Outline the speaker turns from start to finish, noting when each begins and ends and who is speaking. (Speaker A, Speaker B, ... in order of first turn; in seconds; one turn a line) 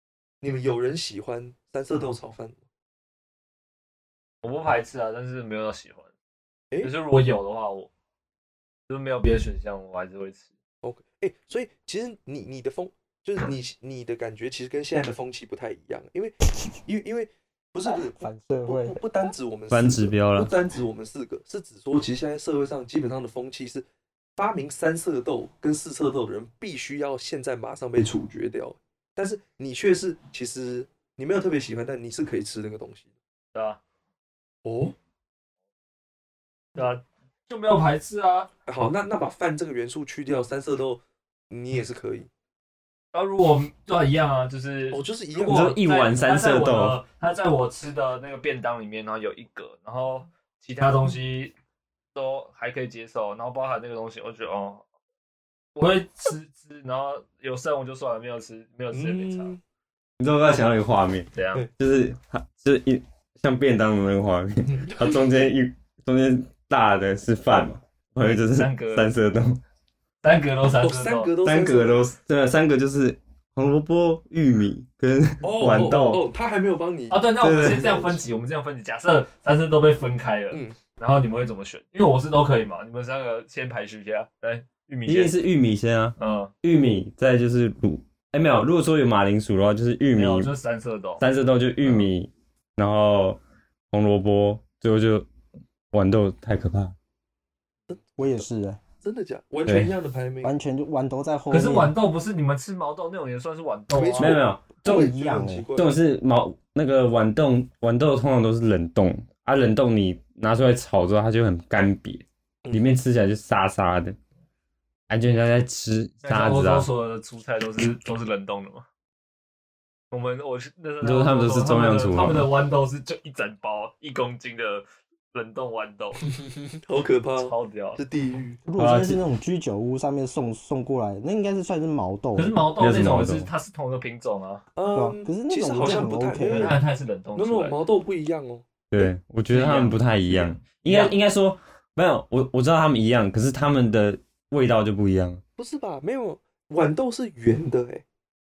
Speaker A: 0.4-2.6
Speaker B: 4.4-6.1
Speaker B: 6.8-7.9
Speaker B: 8.9-10.5
Speaker A: 10.8-23.9
Speaker C: 18.1-19.0
Speaker D: 19.7-20.5
Speaker A: 24.4-33.1
Speaker B: 33.5-33.8
Speaker A: 34.6-35.0
Speaker B: 36.8-38.5
Speaker A: 38.7-42.3
Speaker B: 43.1-51.5
Speaker A: 44.9-45.6
Speaker D: 45.5-47.0
Speaker B: 52.1-54.9
Speaker B: 55.8-59.5
Speaker A: 58.9-59.6
Speaker D: 60.2-69.6
Speaker B: 61.3-61.6
Speaker A: 64.7-65.2
Speaker B: 68.2-69.1
Speaker B: 70.2-71.3
Speaker A: 70.8-72.0
Speaker D: 71.5-76.2
Speaker A: 75.4-78.2
Speaker B: 77.1-85.3
Speaker D: 77.4-77.8
Speaker A: 80.5-80.8
Speaker D: 85.1-90.5
Speaker B: 86.2-86.5
Speaker B: 90.2-91.2
Speaker D: 91.2-93.4
Speaker D: 93.9-95.3
Speaker D: 95.9-97.0
Speaker A: 97.9-98.5
Speaker C: 98.2-98.8
Speaker A: 99.0-100.5
Speaker D: 99.7-99.9
Speaker C: 100.4-101.9
Speaker B: 101.5-104.4
Speaker A: 103.9-106.0
Speaker D: 104.2-105.0
Speaker C: 104.8-105.7
Speaker D: 105.8-114.2
Speaker A: 112.6-113.0
Speaker D: 115.1-116.9
Speaker B: 116.2-118.8
Speaker B: 120.1-126.2
Speaker D: 121.0-122.5
Speaker A: 126.8-128.6
Speaker B: 127.4-128.0
Speaker C: 128.7-132.6
Speaker D: 128.8-129.2
Speaker B: 132.3-134.6
Speaker D: 132.8-133.5
Speaker A: 134.8-136.8
Speaker C: 134.9-136.8
Speaker B: 136.4-137.8
Speaker A: 137.4-139.1
Speaker D: 138.9-145.4
Speaker B: 139.5-141.2
Speaker A: 145.6-148.0